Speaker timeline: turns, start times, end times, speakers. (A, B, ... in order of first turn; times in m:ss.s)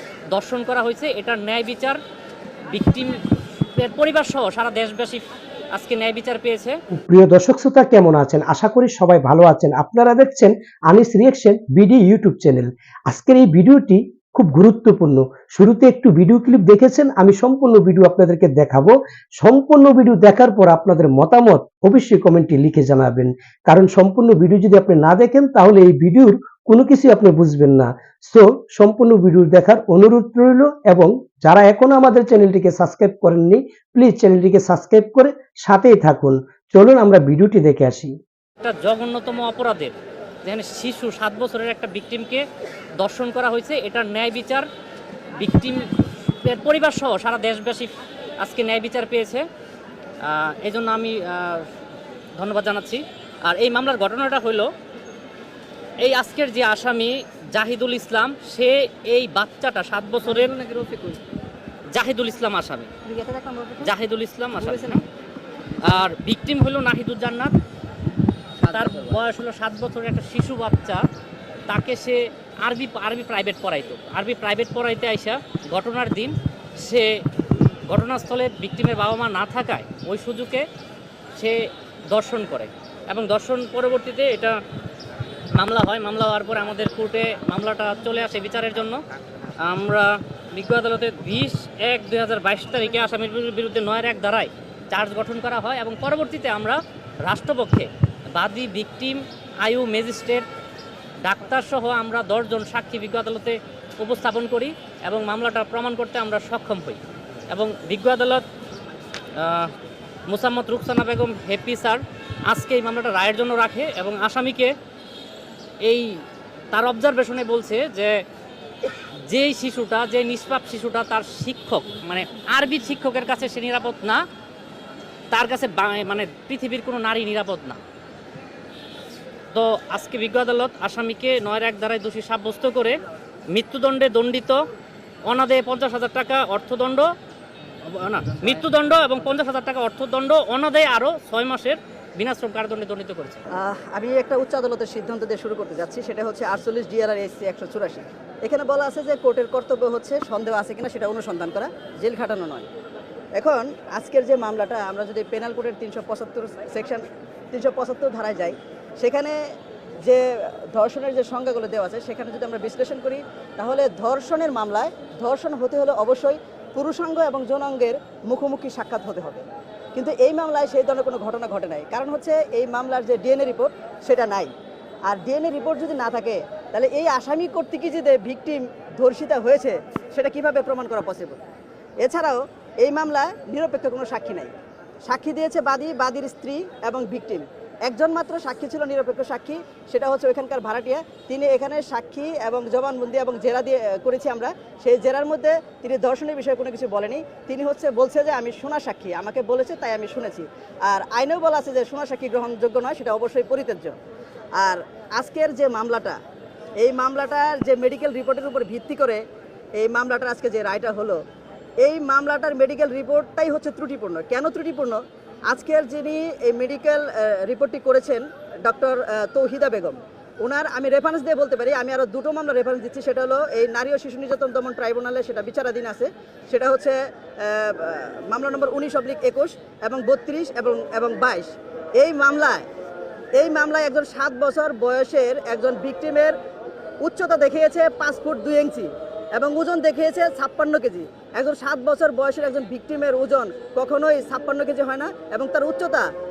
0:00.3-0:02.0 A
0:02.7-0:03.2 A
0:03.7-0:06.8 A
0:07.0-0:38.1 B
0:38.6-0:42.4 A
0:43.0-0:44.7 A
0:45.4-0:49.4 A
0:50.2-0:51.7 A
0:52.4-0:54.7 A
0:56.0-1:00.5 A
1:00.4-1:01.2 C
1:01.9-1:03.0 A
1:03.1-1:03.7 C
1:03.8-1:05.0 A
1:05.8-1:07.6 A
1:08.6-1:09.2 C
1:08.7-1:11.0 A
1:11.7-1:17.1 A
1:17.9-1:20.7 A
1:21.4-1:24.6 A
1:25.6-1:29.0 A
1:29.6-1:40.5 A
1:41.2-1:48.4 A
1:49.4-1:49.7 A
1:50.3-1:54.7 A
1:55.8-1:56.2 A
1:56.7-1:58.1 A
1:59.3-2:04.2 A
2:05.3-2:07.8 A
2:09.5-2:13.0 A
2:13.5-2:14.6 A
2:15.3-2:17.1 A
2:17.9-2:23.4 A
2:23.6-2:32.7 C
2:33.4-2:39.4 C
2:40.0-2:49.4 C
2:50.0-2:54.5 C
2:55.1-3:01.4 C
3:02.0-3:04.5 C
3:05.1-3:24.0 C
3:24.6-3:26.2 C
3:26.8-3:29.2 C
3:29.8-3:31.2 C
3:31.8-3:52.7 C
3:53.4-3:56.4 C
3:57.0-4:06.1 C